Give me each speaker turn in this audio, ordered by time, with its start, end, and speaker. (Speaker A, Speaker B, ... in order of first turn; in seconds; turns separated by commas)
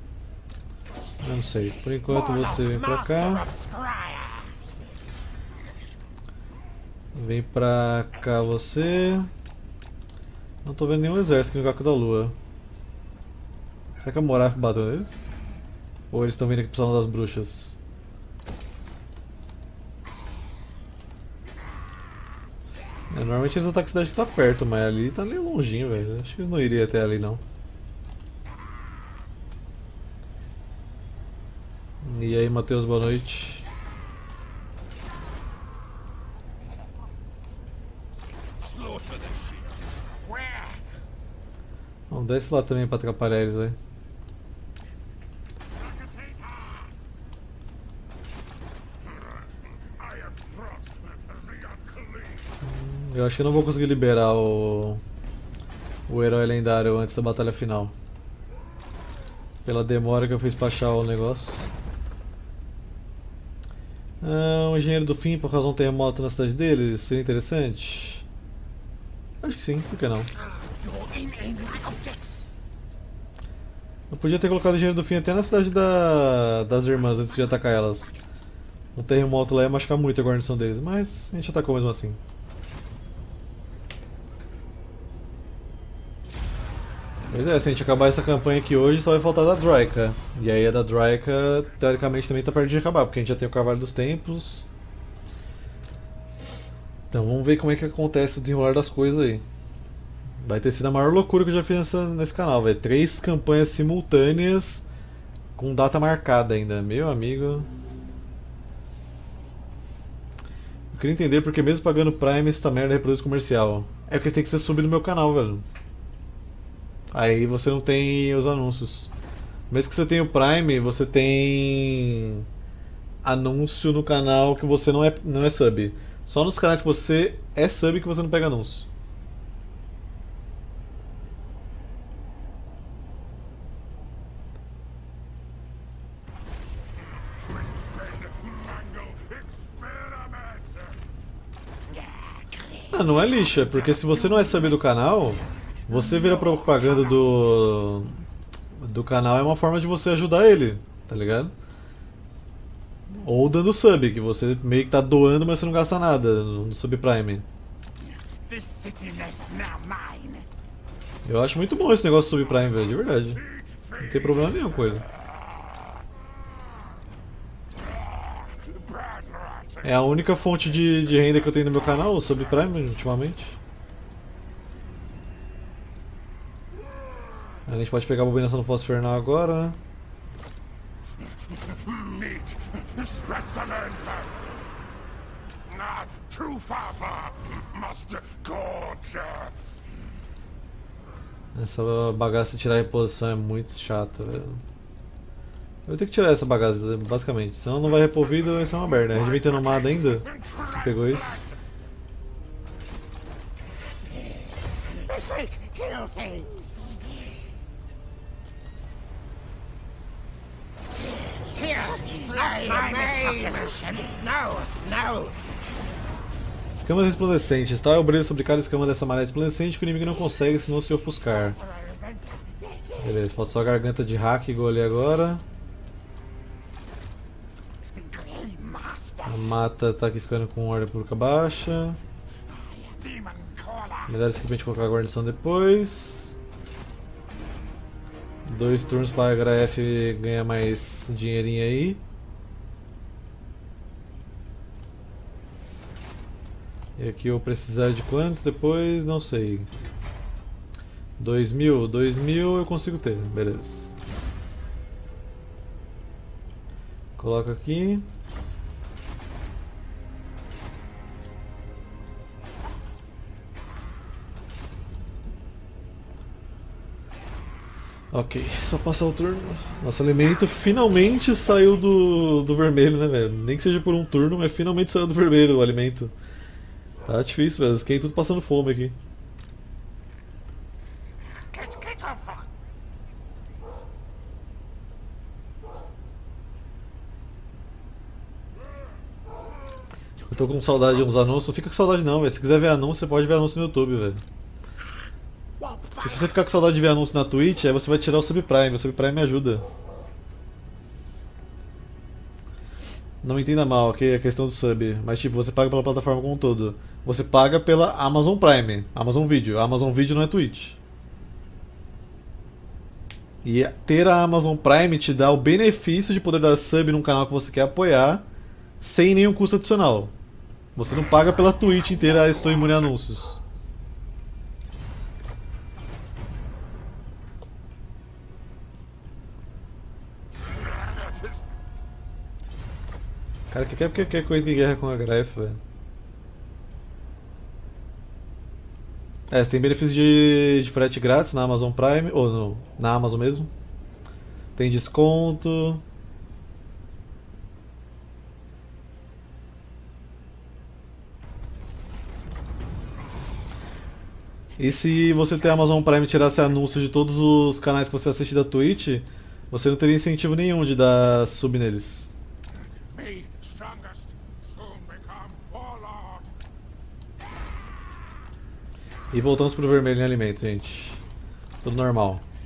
Speaker A: 1.2-3.5, Speaker B: 2.0-4.7, Speaker A: 7.2-9.3, Speaker A: 10.6-12.3, Speaker A: 14.0-15.2, Speaker A: 16.1-17.8, Speaker A: 23.1-27.4, Speaker A: 32.0-33.7, Speaker C: 38.6-39.7, Speaker C: 40.4-40.7, Speaker A: 42.1-43.8, Speaker C: 45.8-46.9, Speaker C: 50.0-52.6, Speaker A: 52.6-55.0, Speaker A: 56.1-57.9, Speaker A: 59.7-61.7, Speaker A: 64.2-68.2, Speaker A: 69.4-70.3, Speaker B: 70.7-72.5, Speaker A: 74.1-78.2, Speaker A: 79.0-82.2, Speaker A: 87.3-94.7, Speaker A: 97.1-99.4, Speaker A: 100.4-104.9, Speaker A: 105.6-107.7, Speaker A: 110.9-115.7, Speaker A: 117.1-119.1, Speaker A: 119.7-122.5, Speaker A: 123.2-128.9, Speaker C: 137.4-141.0, Speaker B: 141.9-144.7, Speaker A: 142.9-148.2, Speaker B: 146.2-147.3, Speaker A: 148.8-151.5, Speaker A: 153.1-157.4, Speaker B: 158.5-160.5, Speaker A: 161.2-163.4, Speaker C: 163.3-164.5, Speaker A: 164.0-165.1, Speaker C: 168.2-172.3, Speaker A: 169.8-173.6, Speaker A: 177.7-179.8, Speaker C: 181.6-184.4, Speaker C: 185.7-189.6, Speaker A: 191.5-194.6, Speaker A: 195.9-201.5, Speaker C: 198.5-201.6, Speaker B: 204.9-207.3, Speaker B: 211.5-215.4, Speaker C: 212.4-213.7, Speaker A: 216.8-221.6, Speaker B: 221.4-223.3, Speaker A: 223.0-225.4, Speaker B: 228.0-229.4, Speaker A: 229.2-232.0, Speaker B: 232.5-233.1, Speaker C: 233.0-234.1, Speaker A: 234.1-236.3, Speaker A: 238.5-242.0, Speaker A: 247.0-249.7, Speaker A: 251.2-253.9, Speaker A: 257.2-258.1, Speaker A: 268.1-276.1, Speaker A: 277.1-279.0, Speaker B: 281.5-282.4, Speaker A: 290.3-294.2, Speaker B: 295.6-296.3, Speaker A: 296.0-299.6, Speaker A: 303.2-310.8, Speaker A: 313.4-318.2, Speaker A: 318.8-320.1, Speaker A: 320.8-323.4, Speaker C: 322.4-322.8, Speaker A: 333.5-335.6, Speaker A: 339.3-343.5, Speaker A: 344.6-345.8, Speaker A: 354.6-362.1, Speaker C: 362.9-366.3, Speaker A: 369.1-371.0, Speaker A: 371.6-372.2